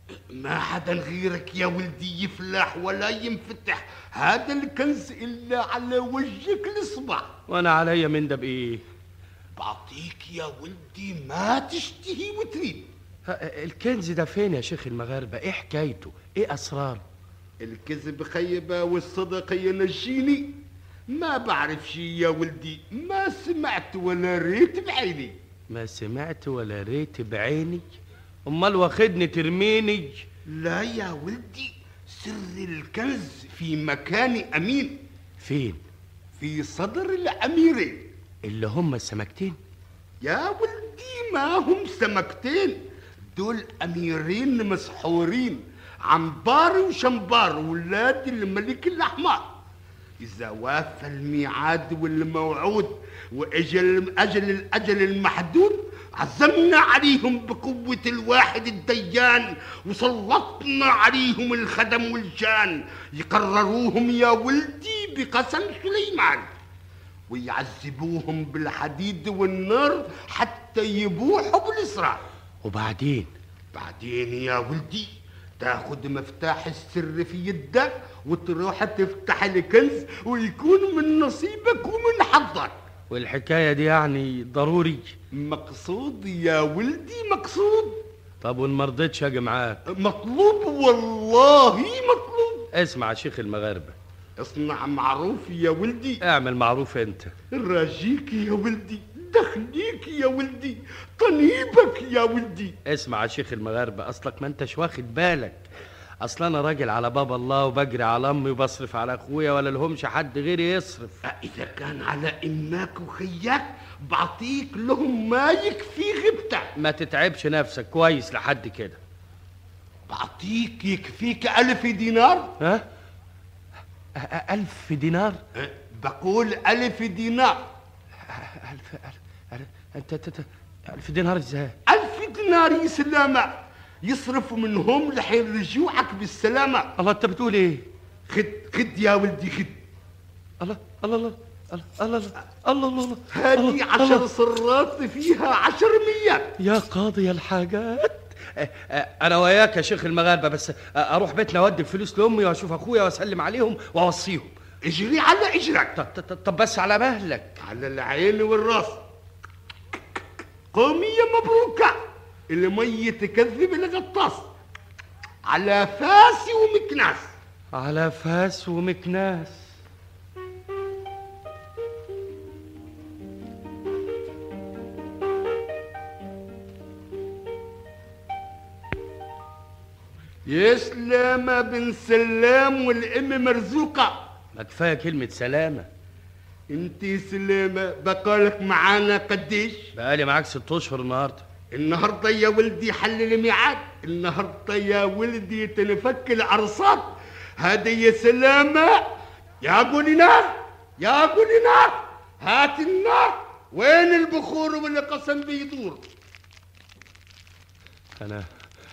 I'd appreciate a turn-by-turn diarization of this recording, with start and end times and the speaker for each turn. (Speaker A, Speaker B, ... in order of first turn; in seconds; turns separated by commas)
Speaker A: 0.3-7.3, Speaker B: 7.5-8.8, Speaker A: 9.6-12.9, Speaker B: 13.3-17.0, Speaker A: 17.6-20.6, Speaker A: 21.1-25.3, Speaker B: 25.7-27.9, Speaker B: 28.5-30.2, Speaker A: 30.5-35.0, Speaker B: 35.4-35.8, Speaker A: 36.4-38.1, Speaker B: 38.4-39.6, Speaker A: 40.2-42.8, Speaker A: 43.4-49.5, Speaker A: 50.2-66.4, Speaker A: 67.3-72.2, Speaker B: 72.6-73.3, Speaker A: 73.7-82.7, Speaker B: 83.1-85.1, Speaker A: 85.3-88.0, Speaker B: 88.4-89.8, Speaker A: 90.0-92.6, Speaker B: 92.7-94.0, Speaker A: 94.4-96.2, Speaker B: 96.2-97.3, Speaker A: 97.5-102.7, Speaker B: 102.9-105.7, Speaker B: 106.2-111.2, Speaker A: 111.3-116.7, Speaker B: 116.8-119.0, Speaker A: 120.1-122.5, Speaker B: 124.2-125.4, Speaker A: 125.6-127.6, Speaker B: 128.2-131.7, Speaker A: 131.9-133.5, Speaker A: 134.0-136.9, Speaker B: 137.0-137.8, Speaker A: 138.3-139.8, Speaker B: 140.6-144.2, Speaker A: 143.3-146.5, Speaker B: 146.6-154.5, Speaker A: 154.9-155.9, Speaker B: 156.0-157.6, Speaker A: 157.6-159.0, Speaker A: 160.7-161.9, Speaker A: 162.5-164.5, Speaker A: 165.5-167.3, Speaker B: 167.7-169.8, Speaker A: 180.5-184.2, Speaker B: 184.5-185.9, Speaker A: 186.7-189.9, Speaker B: 190.0-191.4, Speaker A: 191.7-197.1, Speaker A: 197.6-199.0, Speaker A: 199.6-206.0, Speaker B: 208.2-208.5